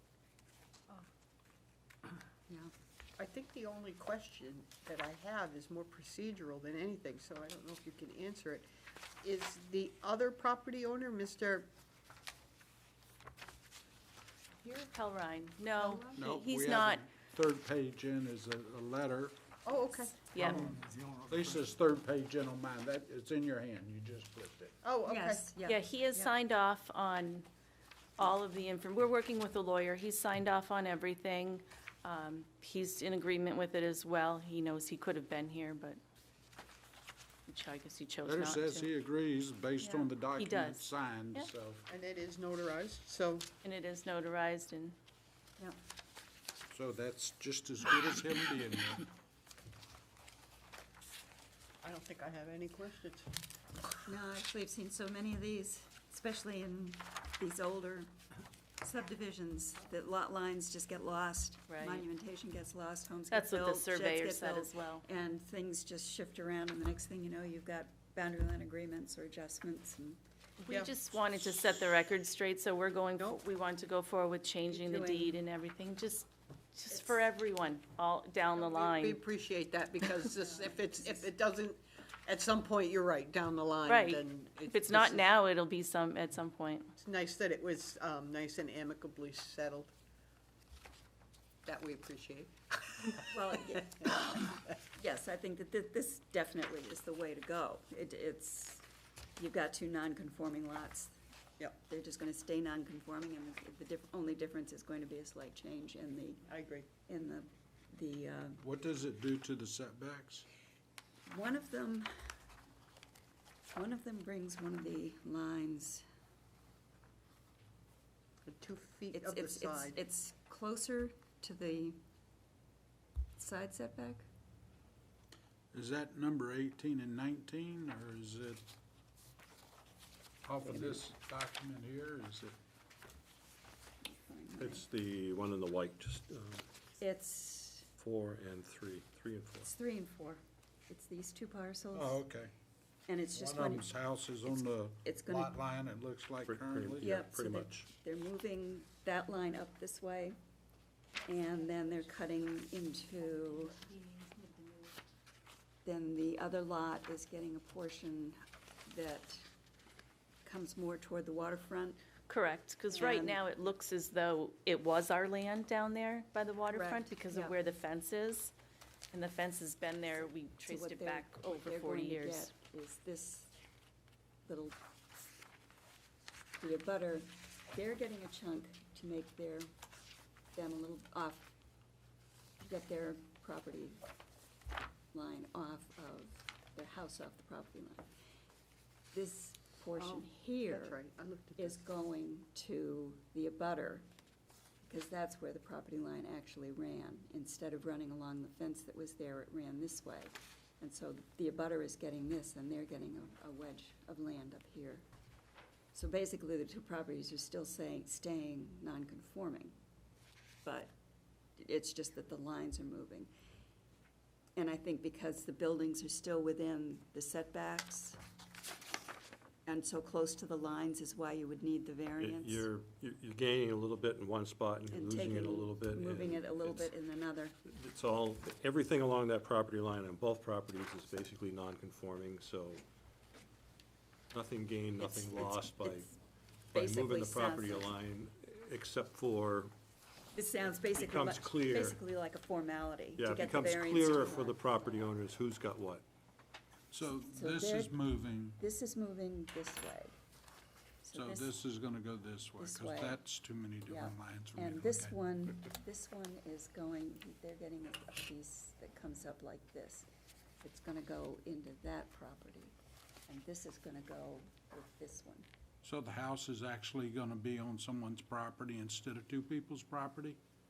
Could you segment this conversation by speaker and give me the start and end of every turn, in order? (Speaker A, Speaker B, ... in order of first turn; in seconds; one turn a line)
Speaker A: 3.2-8.7
Speaker A: 9.2-11.7
Speaker B: 14.6-17.0
Speaker C: 16.2-19.4
Speaker A: 19.6-20.3
Speaker B: 20.3-20.7
Speaker C: 20.4-24.8
Speaker A: 24.8-25.5
Speaker D: 25.1-26.3
Speaker B: 25.6-27.5
Speaker B: 28.2-36.0
Speaker B: 37.5-38.9
Speaker C: 38.2-41.8
Speaker B: 39.8-41.5
Speaker A: 41.9-43.5
Speaker B: 43.6-45.0
Speaker C: 46.7-49.1
Speaker A: 51.8-53.3
Speaker D: 54.0-58.1
Speaker D: 58.8-70.2
Speaker B: 61.7-62.0
Speaker B: 63.3-65.0
Speaker B: 70.6-79.2
Speaker D: 74.7-75.4
Speaker D: 76.9-77.2
Speaker A: 78.6-85.3
Speaker D: 80.3-81.2
Speaker B: 83.8-86.9
Speaker A: 87.0-89.9
Speaker A: 91.7-93.2
Speaker D: 93.3-98.8
Speaker D: 99.4-101.2
Speaker D: 101.8-106.4
Speaker A: 106.5-106.9
Speaker D: 107.0-108.6
Speaker C: 108.6-110.5
Speaker D: 111.3-112.1
Speaker D: 113.7-116.0
Speaker A: 118.4-120.0
Speaker D: 119.1-122.0
Speaker D: 123.4-124.3
Speaker C: 125.7-128.6
Speaker C: 130.4-132.6
Speaker D: 130.6-131.0
Speaker D: 134.0-134.8
Speaker E: 134.6-136.7
Speaker D: 137.0-137.9
Speaker E: 138.0-139.7
Speaker D: 139.6-142.2
Speaker C: 141.9-142.5
Speaker D: 143.1-143.9
Speaker C: 143.3-147.1
Speaker D: 144.4-145.6
Speaker E: 146.4-147.9
Speaker D: 147.0-150.4
Speaker D: 151.3-153.8
Speaker D: 155.8-159.4
Speaker D: 160.4-162.0
Speaker B: 162.3-168.5
Speaker D: 162.9-163.4
Speaker D: 166.7-167.5
Speaker B: 169.1-172.5
Speaker D: 170.6-173.5
Speaker D: 174.4-174.8
Speaker D: 176.6-179.7
Speaker D: 180.5-181.5
Speaker D: 182.6-184.0
Speaker D: 185.1-188.1
Speaker D: 189.1-191.0
Speaker A: 190.0-191.8
Speaker D: 191.6-194.1
Speaker D: 194.9-205.0
Speaker D: 205.9-209.7
Speaker D: 210.6-210.9
Speaker D: 211.6-213.3
Speaker D: 214.6-218.2
Speaker D: 219.7-222.7
Speaker E: 222.2-226.9
Speaker D: 224.9-227.6
Speaker E: 227.6-232.8
Speaker E: 234.3-236.1
Speaker D: 235.0-236.2
Speaker E: 236.7-239.7
Speaker D: 236.7-238.0
Speaker D: 240.3-244.8
Speaker E: 240.9-242.0
Speaker E: 243.2-246.0
Speaker C: 246.9-248.6
Speaker D: 247.2-248.0
Speaker D: 248.6-250.1
Speaker D: 251.0-251.5
Speaker C: 251.1-255.2
Speaker D: 252.6-253.2
Speaker D: 253.8-260.1
Speaker D: 260.6-262.8
Speaker D: 263.3-265.4
Speaker C: 265.8-270.4